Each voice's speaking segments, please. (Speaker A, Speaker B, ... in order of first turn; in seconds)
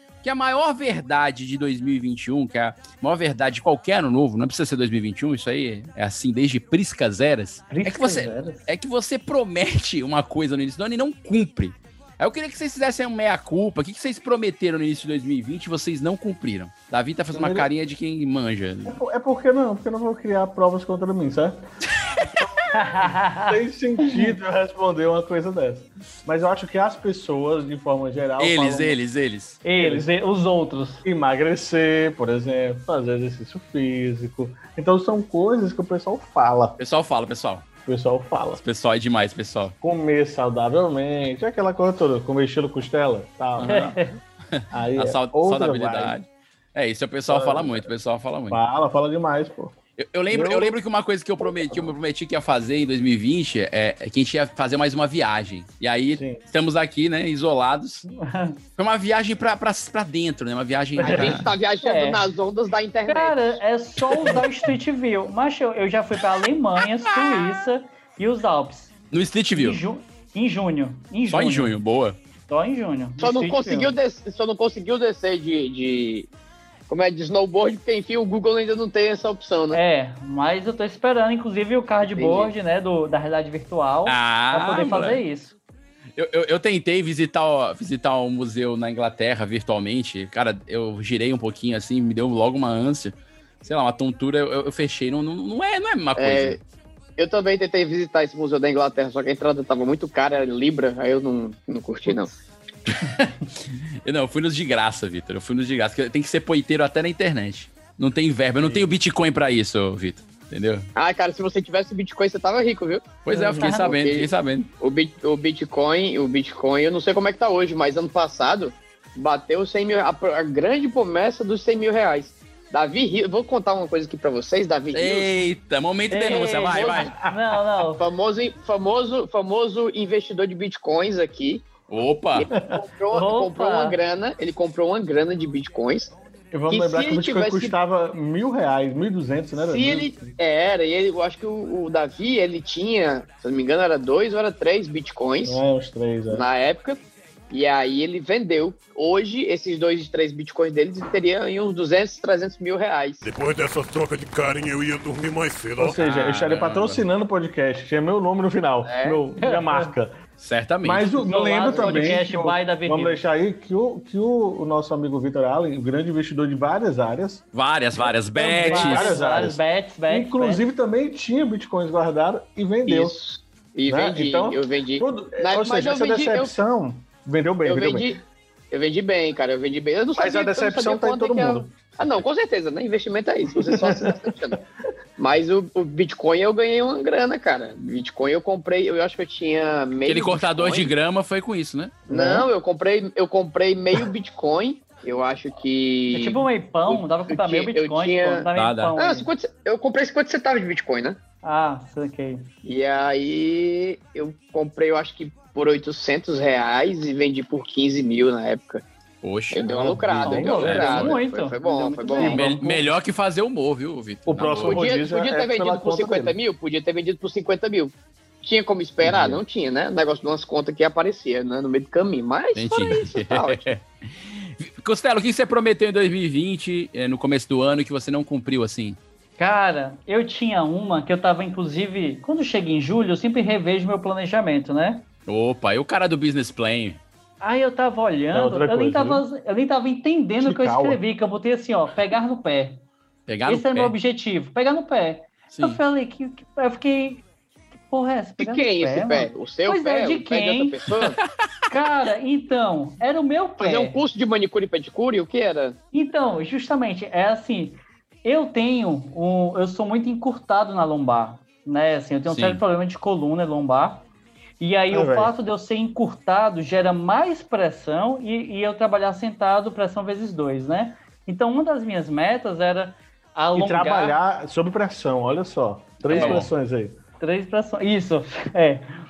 Speaker A: 0.2-19.0, 28.4-29.6, 36.8-37.6, 38.6-39.8, 43.6-43.9, 44.5-48.6, 50.0-58.1, 58.8-61.5, 69.1-69.8, 71.3-72.2, 84.1-85.2, 86.2-96.6, 102.9-110.9, 113.2-114.7, 124.9-127.1, 131.9-132.5, 156.0-157.0, 160.4-161.1, 167.5-169.1, 190.1-192.0, 198.6-198.9, 209.2-211.2, 212.2-214.8, 219.0-219.4, 222.6-229.0, 235.3-237.0, 243.3-243.9, 245.5-245.8, 262.3-262.6, 276.1-276.5
Speaker B: 7.7-8.6, 22.7-24.3, 29.6-31.0, 43.6-44.1, 58.2-58.6, 61.8-62.2, 63.1-68.9, 69.5-71.8, 72.5-73.9, 79.7-85.6, 113.6-113.9, 126.1-128.0, 133.1-134.0, 159.4-159.9, 161.2-163.2, 168.6-170.7, 196.1-199.3, 201.4-202.5, 210.3-212.8, 229.4-235.1, 237.4-242.8, 243.5-247.2, 247.9-250.8, 251.7-254.0, 255.9-264.1, 264.6-274.2, 276.1-276.4, 277.2-278.9
Speaker C: 17.3-17.7, 18.9-21.6, 22.4-29.0, 29.8-30.1, 31.0-36.8, 37.9-38.6, 39.8-44.1, 44.7-46.2, 47.3-47.9, 48.5-49.8, 50.3-50.8, 51.4-52.0, 56.1-56.4, 61.0-61.4, 108.6-108.9, 113.3-113.7, 136.5-140.3, 145.4-146.4, 155.8-160.2, 160.8-167.4, 168.0-173.2, 173.9-178.2, 180.2-181.9, 183.5-184.2, 192.1-192.5, 210.2-211.0, 214.3-216.4, 238.3-239.2, 240.4-241.0, 264.9-265.3, 273.5-277.0
Speaker D: 61.0-63.5, 73.2-76.3, 76.9-79.8, 82.1-82.5, 96.2-96.6, 97.2-102.3, 111.0-113.1, 113.7-125.3, 126.3-127.1, 127.9-131.7, 132.4-136.2, 136.7-137.8, 139.6-145.6, 146.3-153.2, 158.8-159.2, 172.9-176.6, 177.7-184.6, 185.2-190.9, 192.1-201.2, 202.6-208.8, 209.5-212.4, 214.6-223.7, 248.4-251.2, 253.6-255.8
Speaker E: 153.2-156.0